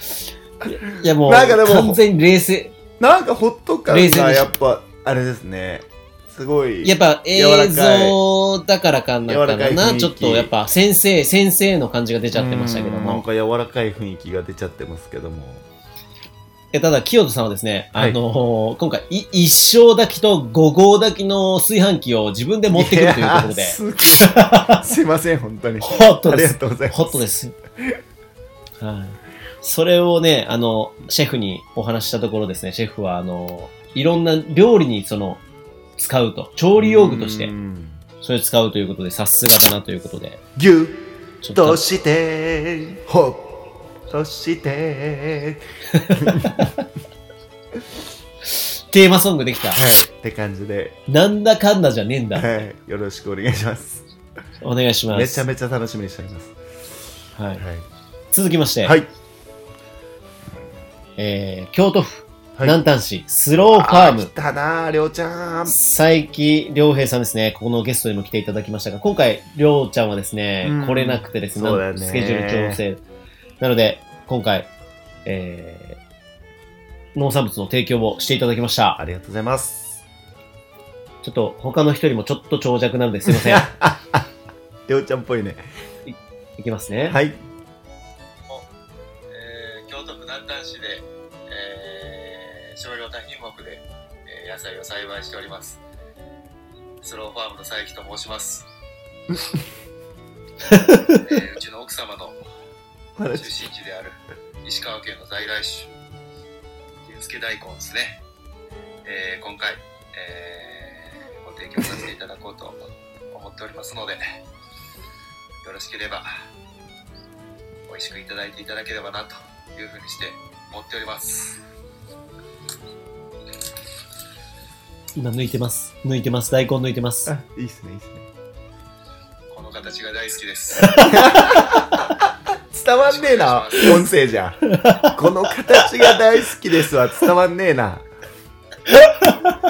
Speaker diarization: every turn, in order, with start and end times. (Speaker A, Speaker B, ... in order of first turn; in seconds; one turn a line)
Speaker A: 0.7-2.8
Speaker B: 1.2-2.0
Speaker B: 3.0-8.2
Speaker A: 3.9-4.5
Speaker A: 6.8-13.2
Speaker B: 9.3-10.5
Speaker B: 12.3-15.7
Speaker A: 16.7-24.8
Speaker B: 22.7-27.2
Speaker A: 25.8-27.6
Speaker A: 28.8-35.4
Speaker A: 36.0-37.5
Speaker B: 36.8-38.0
Speaker A: 38.2-40.4
Speaker B: 40.6-43.5
Speaker A: 41.4-41.8
Speaker B: 44.1-46.7
Speaker A: 45.9-46.7
Speaker A: 48.6-49.8
Speaker B: 49.8-51.0
Speaker A: 51.1-52.6
Speaker B: 52.3-54.0
Speaker A: 54.6-55.5
Speaker B: 55.1-56.5
Speaker A: 57.4-57.6
Speaker B: 57.6-57.9
Speaker A: 58.3-59.0
Speaker B: 58.8-59.1
Speaker A: 61.2-64.3
Speaker B: 63.6-65.8
Speaker A: 65.7-73.0
Speaker B: 70.6-72.8
Speaker A: 73.6-74.7
Speaker A: 75.2-76.0
Speaker A: 77.2-79.0
Speaker B: 79.0-80.0
Speaker A: 81.2-83.7
Speaker B: 83.3-84.3
Speaker B: 84.9-85.6
Speaker A: 86.1-87.2
Speaker B: 87.1-87.4
Speaker C: 89.3-95.8
Speaker C: 97.0-98.7
Speaker A: 100.7-101.2
Speaker C: 101.1-102.4
Speaker B: 103.2-103.7
Speaker C: 103.3-105.9
Speaker C: 107.0-108.2
Speaker C: 109.0-114.2
Speaker C: 115.6-116.3
Speaker C: 117.9-121.6
Speaker A: 125.2-127.3
Speaker B: 127.3-128.3
Speaker C: 129.5-131.1
Speaker A: 130.8-131.1
Speaker B: 131.1-138.1
Speaker C: 133.0-134.0
Speaker A: 134.7-135.1
Speaker A: 139.1-139.5